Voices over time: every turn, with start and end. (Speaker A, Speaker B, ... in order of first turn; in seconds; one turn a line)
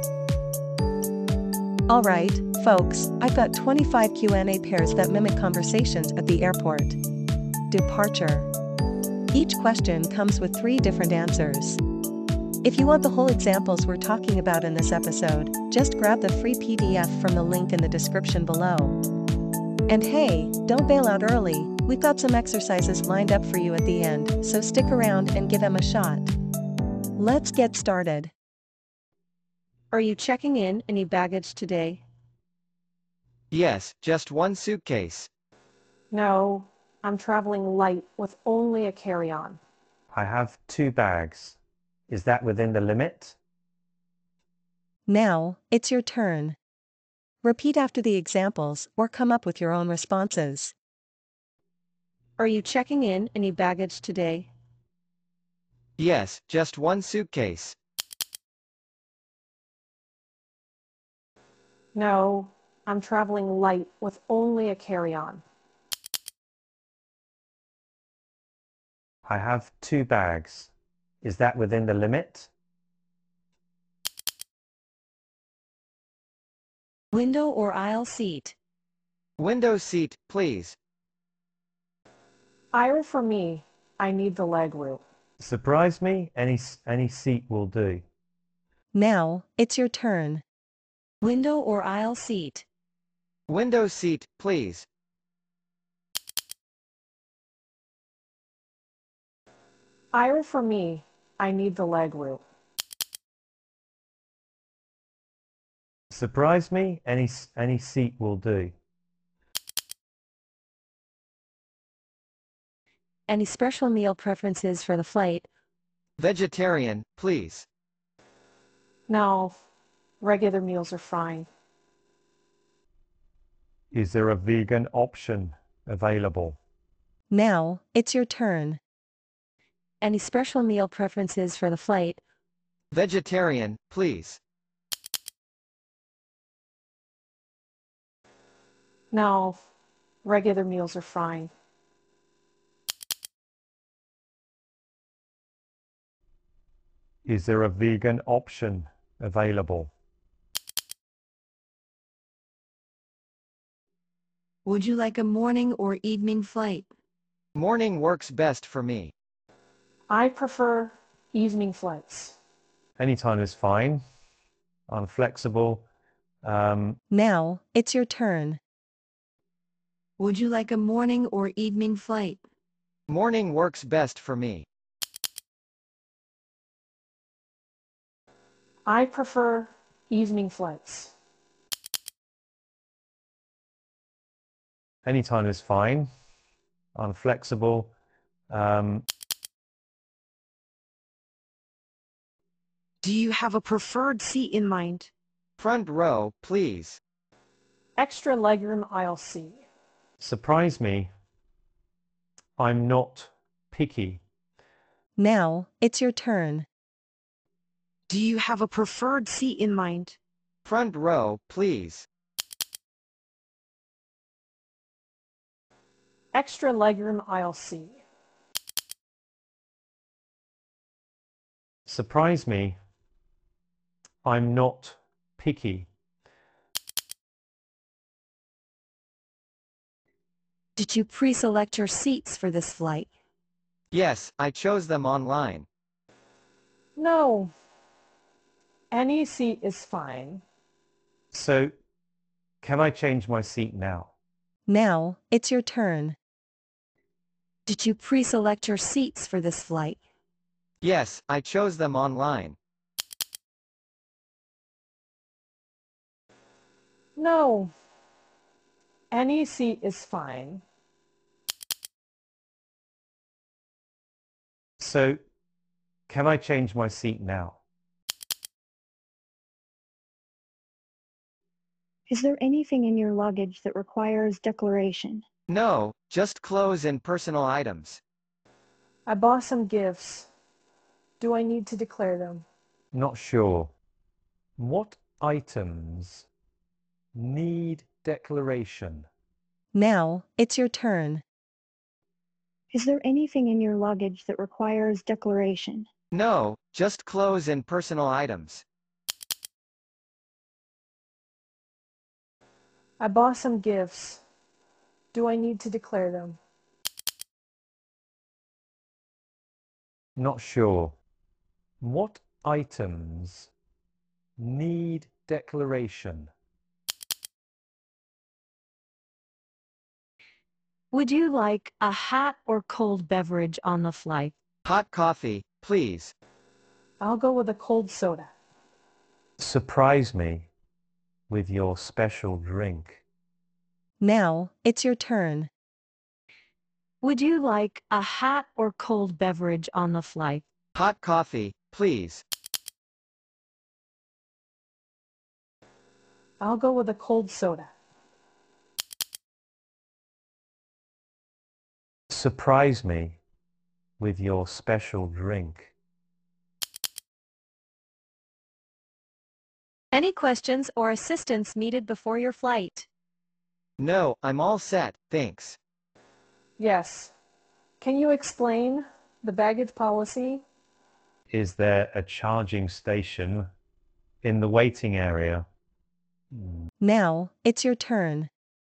Speaker A: 1.9-7.0
Speaker A: 7.7-8.5
Speaker A: 9.3-11.8
Speaker A: 12.6-19.0
Speaker A: 19.9-26.3
Speaker A: 27.2-28.3
Speaker B: 29.9-32.0
Speaker C: 33.5-35.3
Speaker D: 36.1-39.6
Speaker E: 40.1-43.4
Speaker A: 45.1-46.6
Speaker A: 47.4-50.7
Speaker B: 52.4-54.5
Speaker C: 56.0-57.8
Speaker D: 61.9-65.4
Speaker E: 69.3-72.5
Speaker B: 77.1-78.5
Speaker C: 79.4-80.8
Speaker D: 82.7-85.0
Speaker E: 85.4-88.1
Speaker A: 88.9-90.4
Speaker B: 91.2-92.7
Speaker C: 93.5-94.9
Speaker D: 100.1-102.4
Speaker E: 106.1-108.8
Speaker B: 113.3-115.5
Speaker C: 116.2-117.7
Speaker D: 119.1-119.5
Speaker D: 120.2-121.5
Speaker E: 123.9-126.6
Speaker A: 127.3-128.8
Speaker B: 130.0-132.2
Speaker C: 132.9-134.4
Speaker D: 139.1-139.6
Speaker D: 140.2-141.5
Speaker E: 147.2-149.9
Speaker B: 154.7-156.9
Speaker C: 157.6-159.1
Speaker D: 160.1-162.4
Speaker E: 163.0-164.0
Speaker E: 164.9-165.9
Speaker E: 166.4-167.0
Speaker A: 167.1-168.6
Speaker B: 170.2-172.4
Speaker C: 173.1-174.7
Speaker D: 178.9-181.1
Speaker E: 185.0-186.1
Speaker E: 186.9-187.9
Speaker E: 188.5-189.1
Speaker F: 193.0-195.1
Speaker C: 195.6-197.0
Speaker D: 198.0-199.6
Speaker E: 200.2-201.1
Speaker E: 202.6-204.2
Speaker A: 205.2-206.7
Speaker F: 208.1-210.2
Speaker C: 210.7-212.1
Speaker D: 216.3-218.0
Speaker E: 221.9-222.8
Speaker E: 224.2-225.9
Speaker B: 230.8-233.1
Speaker C: 233.9-235.7
Speaker D: 237.0-237.5
Speaker D: 238.9-240.4
Speaker E: 241.3-241.7
Speaker E: 242.6-244.1
Speaker A: 244.7-246.2
Speaker B: 247.7-250.0
Speaker C: 250.8-252.6
Speaker D: 257.2-257.7
Speaker D: 259.1-260.6
Speaker E: 264.8-265.2
Speaker E: 266.1-267.6
Speaker G: 272.1-275.2
Speaker C: 275.5-278.0
Speaker D: 279.1-280.3
Speaker D: 281.2-282.4
Speaker E: 282.9-283.7
Speaker E: 284.6-286.3
Speaker E: 287.1-289.1
Speaker A: 289.7-291.2
Speaker G: 292.7-295.9
Speaker C: 296.1-298.6
Speaker D: 303.0-304.2
Speaker D: 305.1-306.4
Speaker E: 310.2-311.0
Speaker E: 311.8-313.5
Speaker E: 314.4-316.3
Speaker B: 320.9-324.3
Speaker C: 324.6-326.1
Speaker D: 327.0-328.3
Speaker E: 329.4-330.5
Speaker E: 331.3-333.0
Speaker A: 334.0-335.5
Speaker B: 337.0-340.4
Speaker C: 340.8-342.2
Speaker D: 346.4-347.7
Speaker E: 352.1-353.2
Speaker E: 354.0-355.7
Speaker B: 359.9-362.9
Speaker C: 363.8-365.6
Speaker D: 366.6-367.1
Speaker D: 367.8-370.4
Speaker E: 371.3-373.5
Speaker E: 374.2-375.5
Speaker A: 376.8-378.3